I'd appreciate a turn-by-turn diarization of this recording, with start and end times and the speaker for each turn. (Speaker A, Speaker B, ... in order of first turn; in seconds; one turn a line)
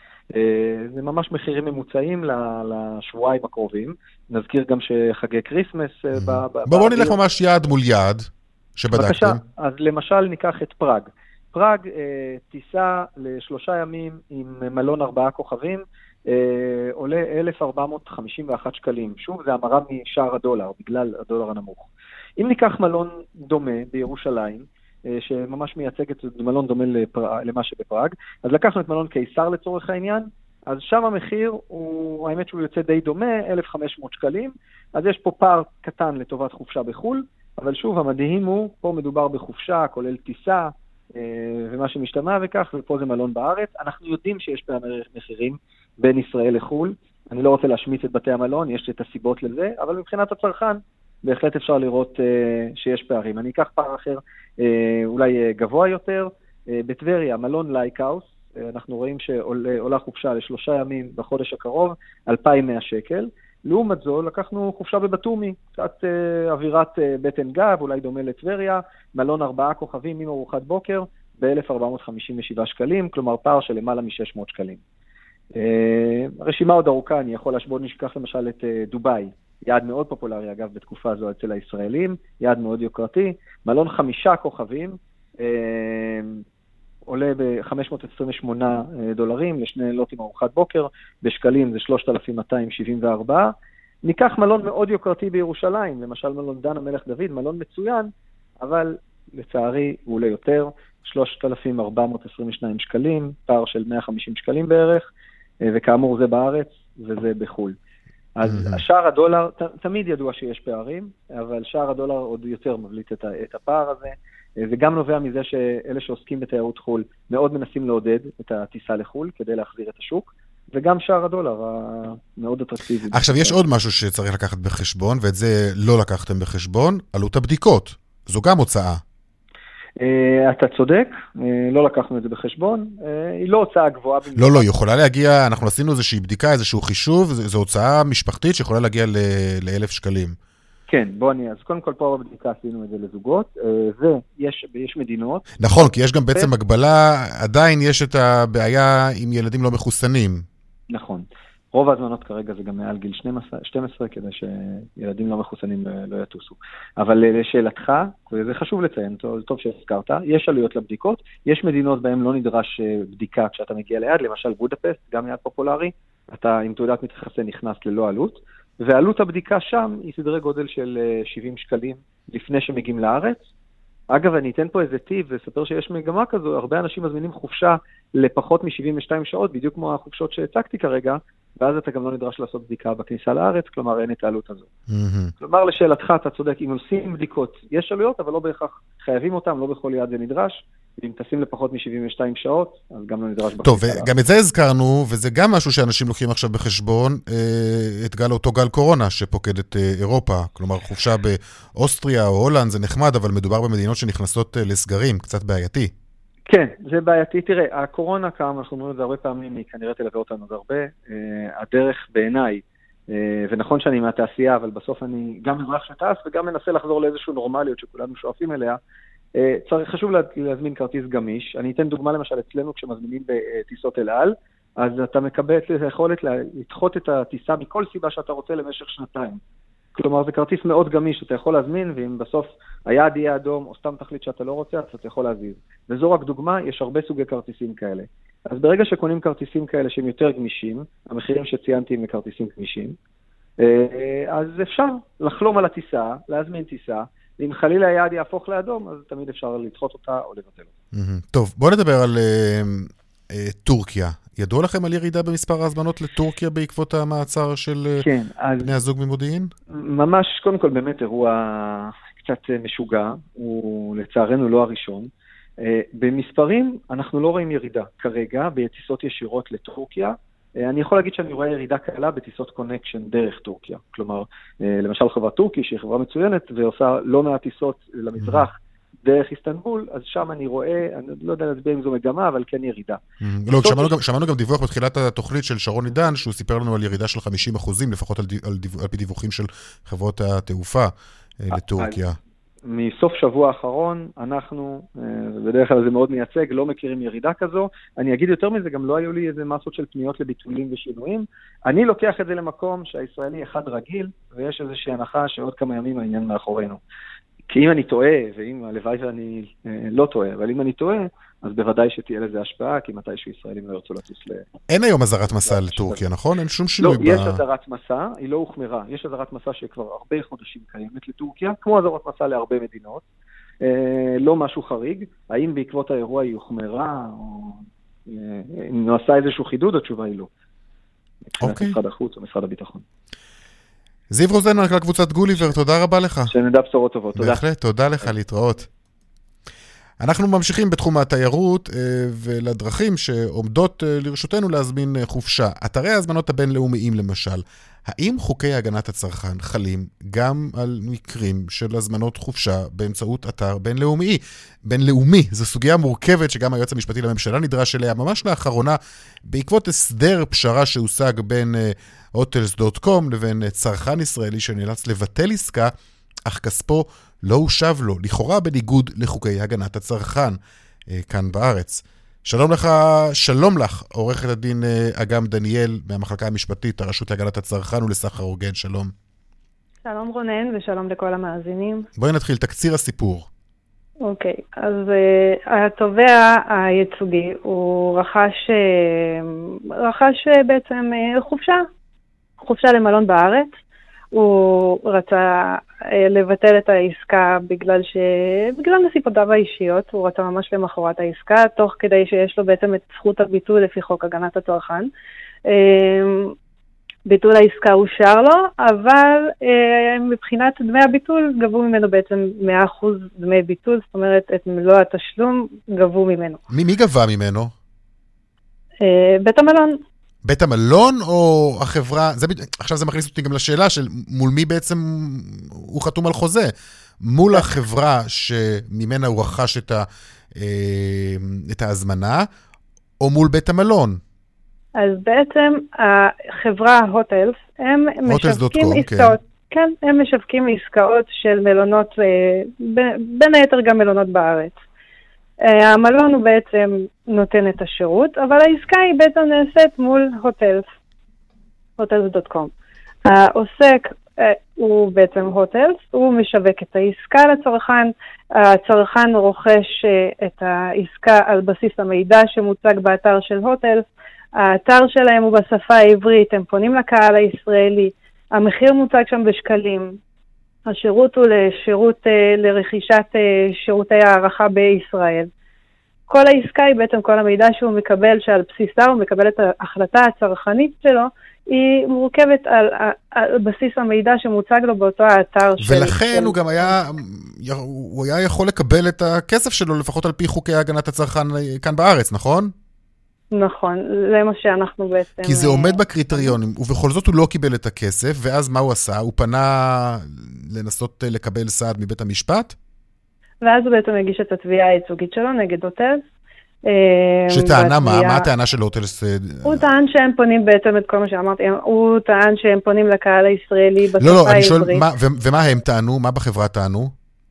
Speaker A: 0.3-7.2
Speaker B: 6.2-9.4
Speaker A: 8.9-21.9
Speaker A: 22.4-74.8
Speaker A: 75.6-86.4
Speaker A: 87.1-93.5
Speaker A: 94.0-105.1
Speaker A: 105.6-107.8
Speaker A: 108.4-123.6
Speaker B: 108.5-108.8
Speaker B: 123.1-129.0
Speaker A: 130.0-134.7
Speaker B: 134.4-140.4
Speaker A: 140.9-146.5
Speaker B: 145.6-150.4
Speaker A: 150.9-173.4
Speaker A: 174.1-184.7
Speaker B: 184.9-185.3
Speaker A: 185.4-194.1
Speaker B: 193.6-205.9
Speaker A: 206.5-218.8
Speaker A: 219.4-229.4
Speaker A: 229.9-243.0
Speaker A: 243.6-250.7
Speaker B: 250.9-258.1
Speaker A: 258.0-258.7
Speaker B: 258.6-259.5
Speaker A: 259.7-265.1
Speaker A: 265.6-283.0
Speaker B: 283.2-292.2
Speaker A: 283.6-284.0
Speaker A: 291.6-292.0
Speaker A: 292.6-306.8
Speaker A: 307.5-314.4
Speaker B: 314.7-317.4
Speaker A: 315.4-316.0
Speaker A: 316.8-323.0
Speaker A: 323.6-330.3
Speaker A: 331.3-332.8
Speaker B: 331.4-331.8
Speaker B: 334.1-336.3
Speaker A: 336.3-337.4
Speaker B: 337.1-338.7
Speaker B: 340.0-365.7
Speaker B: 366.2-378.9
Speaker C: 379.9-381.9
Speaker B: 382.0-383.3
Speaker C: 384.0-391.7
Speaker C: 392.4-393.5
Speaker C: 394.1-404.9
Speaker C: 405.5-406.3
Speaker C: 407.1-416.4
Speaker B: 416.5-417.5
Speaker C: 418.8-419.8
Speaker B: 420.2-432.3
Speaker B: 433.0-434.0
Speaker C: 434.8-444.6
Speaker B: 438.1-439.2
Speaker C: 445.4-450.7
Speaker C: 451.8-452.5
Speaker C: 453.1-463.9
Speaker C: 464.4-470.0
Speaker C: 470.7-475.3
Speaker C: 476.1-486.4
Speaker B: 485.6-492.5
Speaker C: 493.3-496.3
Speaker B: 495.2-502.6
Speaker C: 503.4-506.1
Speaker C: 506.7-508.3
Speaker B: 507.3-509.7
Speaker C: 509.5-514.8
Speaker B: 514.0-516.9